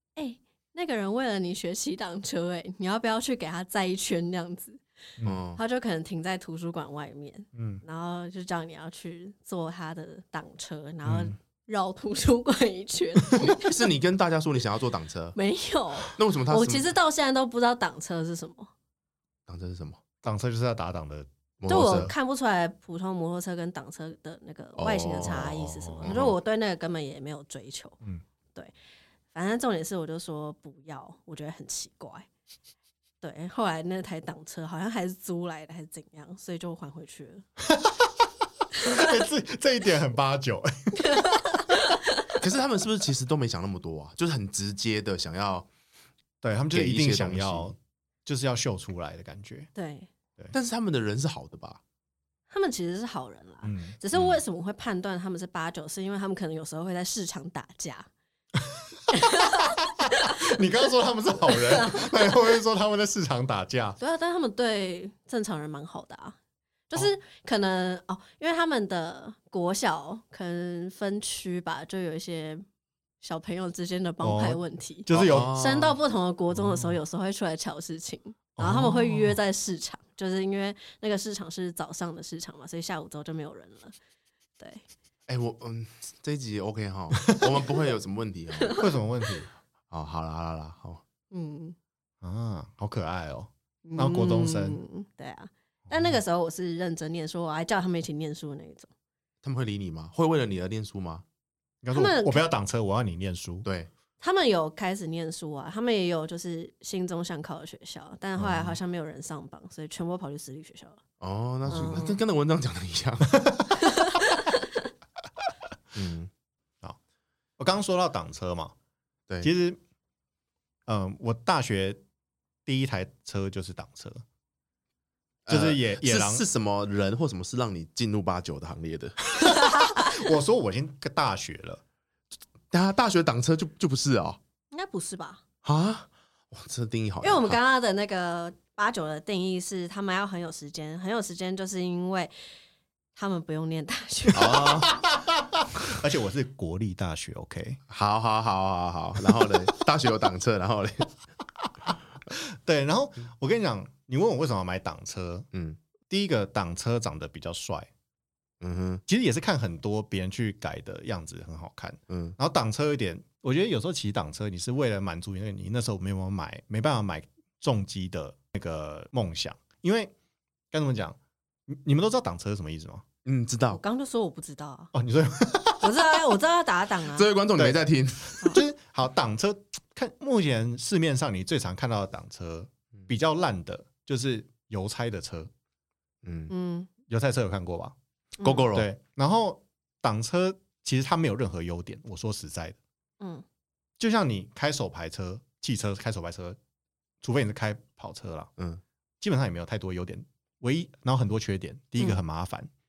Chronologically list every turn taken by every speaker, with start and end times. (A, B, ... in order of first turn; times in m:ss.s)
0:00.2-0:04.8 A
0:05.2-0:05.6 B
0:05.6-0:13.7 A
0:07.5-0:07.8 C
0:11.0-0:11.3 C
0:13.4-0:15.4 B
0:15.4-0:18.7 A
0:16.1-0:16.9 B
0:19.5-0:20.0 B
0:20.2-0:22.1 C
0:21.6-0:22.1 B
0:21.7-0:28.0 A
0:24.8-0:26.4 B
0:25.2-0:26.2 C
0:29.3-0:32.3 A
0:33.2-0:37.4 A
0:37.7-0:38.3 C
0:38.8-0:41.6 C
0:41.0-0:42.3 A
0:42.4-0:45.7 B
0:46.4-0:49.7 C
0:46.7-0:47.7 B
0:49.8-0:50.1 A
0:50.5-0:51.8 B
0:52.5-0:58.1 A
0:53.6-0:54.4 C
0:59.1-1:00.4 A
1:00.0-1:04.0 C
1:01.5-1:02.4 A
1:04.0-1:06.4 A
1:06.9-1:12.6 A
1:13.2-1:23.9 A
1:14.2-1:15.5 C
1:15.1-1:16.0 B
1:16.5-1:17.0 C
1:18.6-1:19.4 C
1:24.6-1:24.8 A
1:25.3-1:28.8 B
1:28.7-1:29.5 C
1:29.9-1:31.0 B
1:31.3-1:31.8 A
1:32.2-1:34.8 C
1:33.8-1:38.9 A
1:35.9-1:36.2 C
1:39.4-1:41.2 B
1:41.8-1:43.6 C
1:41.9-1:42.5 A
1:43.6-1:43.9 B
1:44.2-1:51.0 A
1:48.4-1:48.8 C
1:51.2-1:53.6 B
1:51.7-1:52.0 C
1:51.7-1:52.2 A
1:53.8-1:54.6 A
1:56.0-1:56.3 B
1:57.6-1:58.7 C
1:59.4-1:59.8 C
2:00.9-2:02.0 C
2:02.6-2:04.2 C
2:05.5-2:09.2 B
2:05.5-2:06.4 C
2:09.4-2:11.8 C
2:09.4-2:10.2 A
2:12.7-2:14.4 B
2:14.7-2:15.4 A
2:15.6-2:17.6 B
2:17.2-2:22.3 A
2:23.1-2:24.9 A
2:24.3-2:25.0 B
2:24.5-2:27.8 C
2:27.9-2:31.1 B
2:29.2-2:29.7 C
2:32.3-2:35.5 C
2:35.5-2:35.8 B
2:36.1-2:37.9 C
2:38.6-2:39.0 B
2:39.1-2:50.1 C
2:42.1-2:42.4 B
2:50.7-2:51.2 C
2:51.7-2:53.0 C
2:53.2-2:53.8 B
2:53.7-2:54.9 A
2:54.9-2:56.0 C
2:55.8-2:57.3 A
2:57.1-2:58.5 B
2:57.6-2:57.8 C
2:58.4-3:05.5 C
3:06.2-3:06.5 B
3:06.5-3:06.9 A
3:07.1-3:08.0 C
3:08.4-3:08.6 A
3:08.4-3:08.9 B
3:08.7-3:12.8 C
3:14.0-3:16.6 C
3:17.2-3:18.5 C
3:19.2-3:22.7 C